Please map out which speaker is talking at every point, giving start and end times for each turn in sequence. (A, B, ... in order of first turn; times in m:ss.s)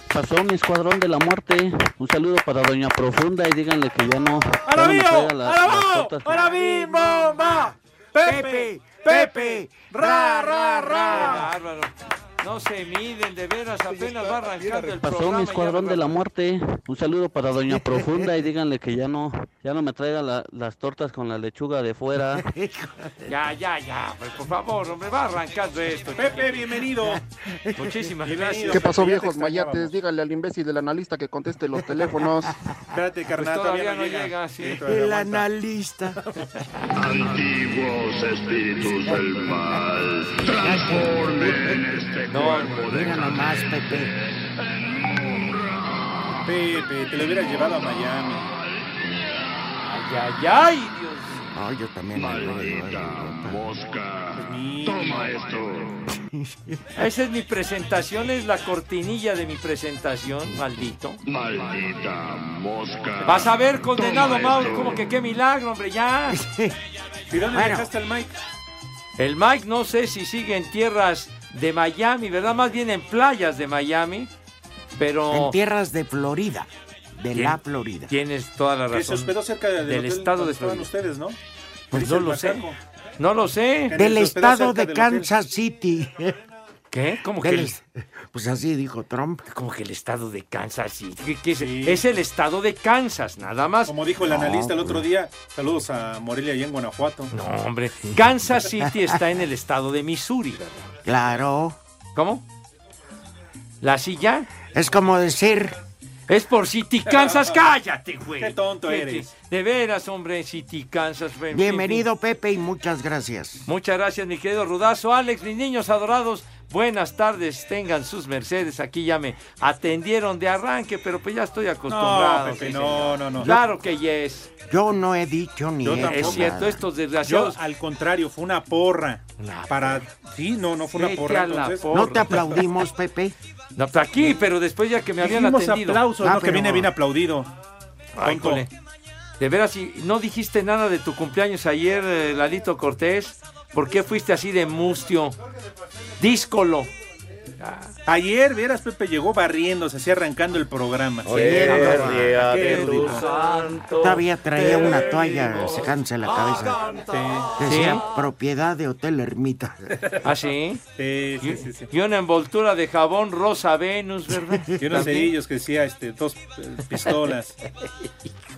0:00.1-0:07.4 A
0:04.6-0:11.5 B
0:07.0-0:07.4 C
0:08.2-0:11.5 C
0:11.1-0:16.2 D
0:13.9-0:14.9 B
0:15.0-0:22.4 A
0:17.5-0:18.5 C
0:22.4-0:23.3 C
0:23.3-0:26.6 D
0:26.2-0:27.2 B
0:27.0-0:28.1 C
0:27.8-0:29.0 D
0:28.2-0:29.9 B
0:28.7-0:32.5 E
0:32.0-0:32.8 C
0:32.9-0:35.5 B
0:33.4-0:34.8 D
0:34.8-0:36.2 C
0:37.0-0:43.5 F
0:38.8-0:39.8 C
0:40.6-0:41.8 C
0:42.3-0:42.8 D
0:42.8-0:44.1 C
0:45.1-0:45.8 F
0:46.4-0:48.5 B
0:49.8-0:51.4 D
0:51.5-0:53.6 C
0:52.2-0:56.1 F
0:54.4-0:55.4 B
0:56.3-0:56.8 C
0:57.0-1:01.2 D
1:00.5-1:00.8 C
1:01.2-1:05.2 F
1:03.2-1:06.4 D
1:06.3-1:06.8 C
1:07.3-1:08.4 B
1:07.5-1:07.9 C
1:09.2-1:14.3 D
1:15.0-1:15.6 D
1:15.3-1:18.1 C
1:17.3-1:20.9 D
1:18.9-1:21.4 B
1:21.9-1:22.6 D
1:21.9-1:22.8 B
1:23.2-1:24.0 D
1:23.9-1:25.3 B
1:23.9-1:26.4 C
1:26.9-1:27.8 D
1:27.4-1:29.4 C
1:29.5-1:34.0 D
1:31.6-1:32.0 B
1:33.9-1:37.3 B
1:34.2-1:35.1 C
1:37.3-1:40.9 D
1:38.6-1:39.2 C
1:41.0-1:41.8 C
1:42.2-1:42.4 D
1:43.8-1:44.5 D
1:44.7-1:45.8 C
1:46.3-1:52.1 D
1:48.4-1:49.3 B
1:51.5-1:53.7 C
1:53.7-2:04.5 D
2:01.9-2:03.5 B
2:03.4-2:03.8 C
2:04.7-2:06.8 C
2:05.8-2:06.6 B
2:06.0-2:07.6 D
2:07.2-2:11.9 B
2:09.4-2:10.0 D
2:10.9-2:12.7 D
2:11.9-2:13.4 C
2:13.8-2:16.0 D
2:15.2-2:17.5 B
2:16.2-2:16.9 C
2:18.2-2:18.7 D
2:18.2-2:18.7 B
2:19.4-2:25.4 D
2:26.2-2:26.9 D
2:27.6-2:27.9 D
2:28.1-2:33.3 B
2:31.2-2:32.6 C
2:31.6-2:33.7 D
2:34.0-2:36.8 C
2:37.1-2:37.5 B
2:37.6-2:40.0 C
2:37.6-2:38.0 D
2:40.2-2:40.8 D
2:41.0-2:41.9 B
2:41.4-2:45.3 D
2:44.3-2:45.2 C
2:44.8-2:47.6 B